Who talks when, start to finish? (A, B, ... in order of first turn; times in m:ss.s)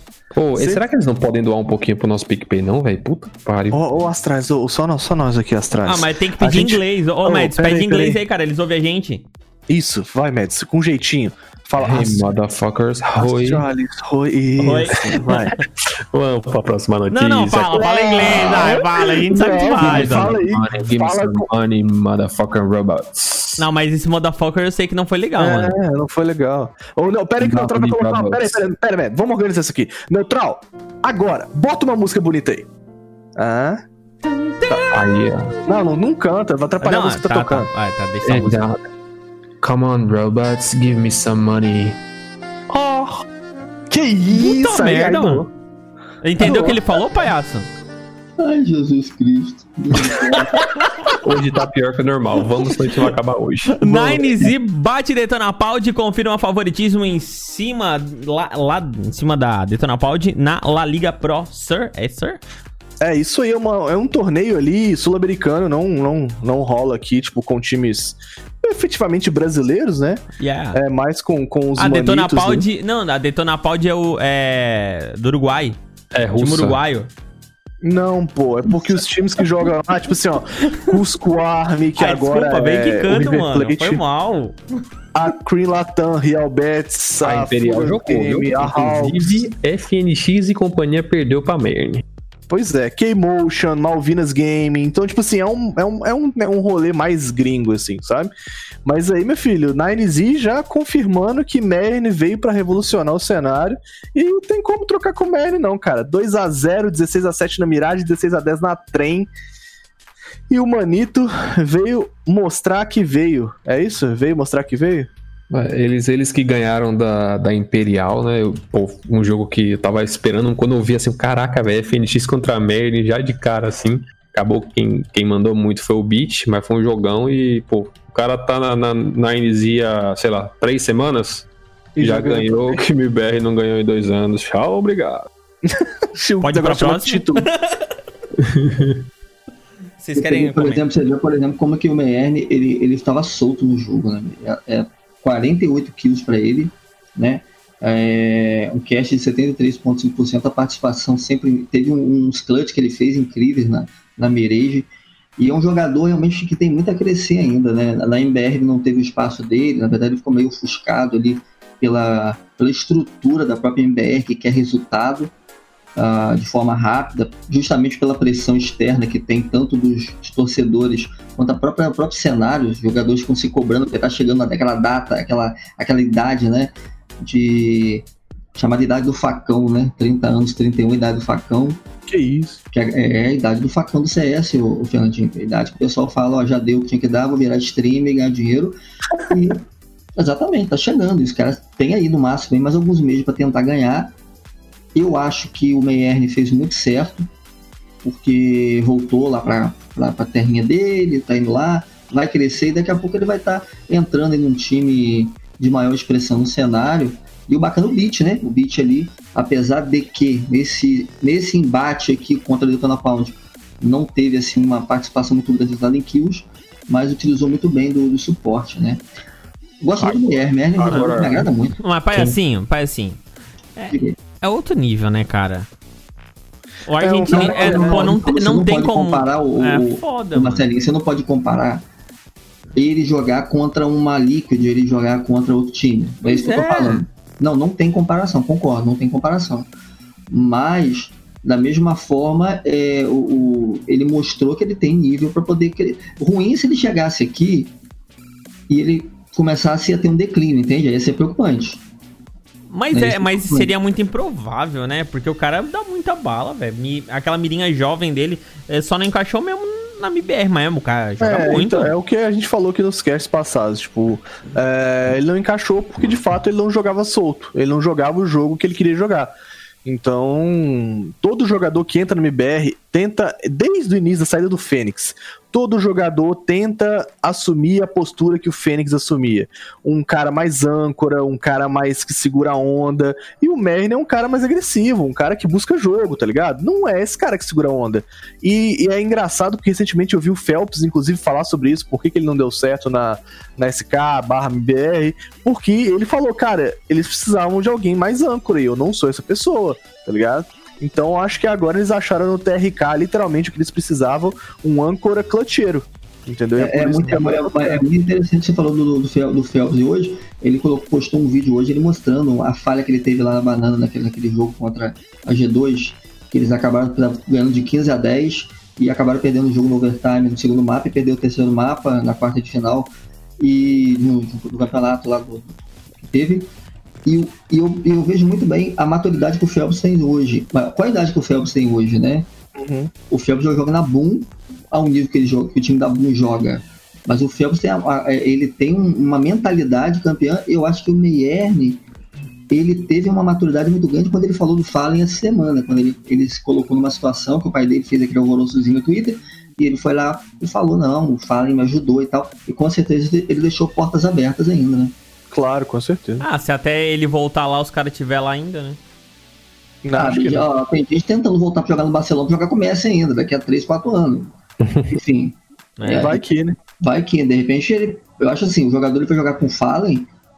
0:00.3-0:03.8 A
0:00.6-0:00.8 B
0:03.7-0:08.2 B
0:05.8-0:09.2 C
0:09.7-0:12.3 B
0:11.8-0:13.6 A
0:13.2-0:15.6 B
0:14.6-0:15.6 C
0:15.8-0:18.7 A
0:17.1-0:20.3 C
0:17.8-0:21.5 B
0:19.7-0:23.6 A
0:23.6-0:25.8 C
0:25.4-0:32.7 B
0:27.4-0:28.6 A
0:33.4-0:33.8 B
0:34.2-0:35.0 C
0:34.9-0:35.5 A
0:35.6-0:37.7 B
0:36.8-0:38.6 C
0:38.2-0:38.8 A
0:39.6-0:42.0 A
0:42.7-0:43.2 B
0:43.9-0:45.5 B
0:44.3-0:45.4 C
0:46.2-0:47.7 C
0:46.4-0:46.8 B
0:48.4-0:50.6 D
0:50.5-0:50.9 C
0:51.2-0:54.2 A
0:53.8-1:02.4 C
1:03.0-1:10.2 B
1:10.4-1:10.8 C
1:10.7-1:12.6 B
1:11.8-1:15.8 C
1:16.1-1:16.8 A
1:16.4-1:17.1 C
1:17.8-1:24.0 B
1:22.0-1:24.6 C
1:25.1-1:29.4 B
1:27.2-1:32.0 A
1:32.5-1:38.3 B
1:38.8-1:49.3 B
1:50.5-1:55.1 B
1:55.5-2:15.3 A
2:12.0-2:12.8 B
2:15.7-2:17.4 B
2:16.4-2:17.8 C
2:18.4-2:19.0 A
2:20.0-2:20.8 C
2:20.2-2:45.3 D
2:46.0-3:01.8 D
3:02.1-3:02.6 B
3:02.7-3:08.8 D
3:09.3-3:09.6 D
3:10.2-3:14.1 D
3:14.9-3:17.3 D
3:18.0-3:39.0 D
3:39.8-3:41.8 D
3:40.0-3:41.5 B
3:41.8-3:43.2 C
3:43.8-3:45.7 C
3:46.9-3:50.6 C
3:47.0-3:48.1 B
3:47.3-3:51.9 D
3:52.8-3:59.7 D
3:56.2-3:57.0 C
4:00.3-4:07.7 D
4:08.7-4:11.8 D
4:12.7-4:21.9 C
4:12.9-4:13.7 D
4:21.2-4:29.3 B
4:29.8-5:07.8 B
5:06.6-5:26.5 D
5:27.0-5:32.3 D
5:32.6-5:32.9 B
5:33.1-5:41.8 D
5:42.5-5:54.9 D
5:55.3-5:56.2 B
5:56.2-5:58.8 C
5:59.8-6:00.4 B
6:00.0-6:04.3 D
6:04.9-6:06.2 D
6:05.8-6:06.2 C
6:05.9-6:06.6 B
6:06.8-6:10.1 D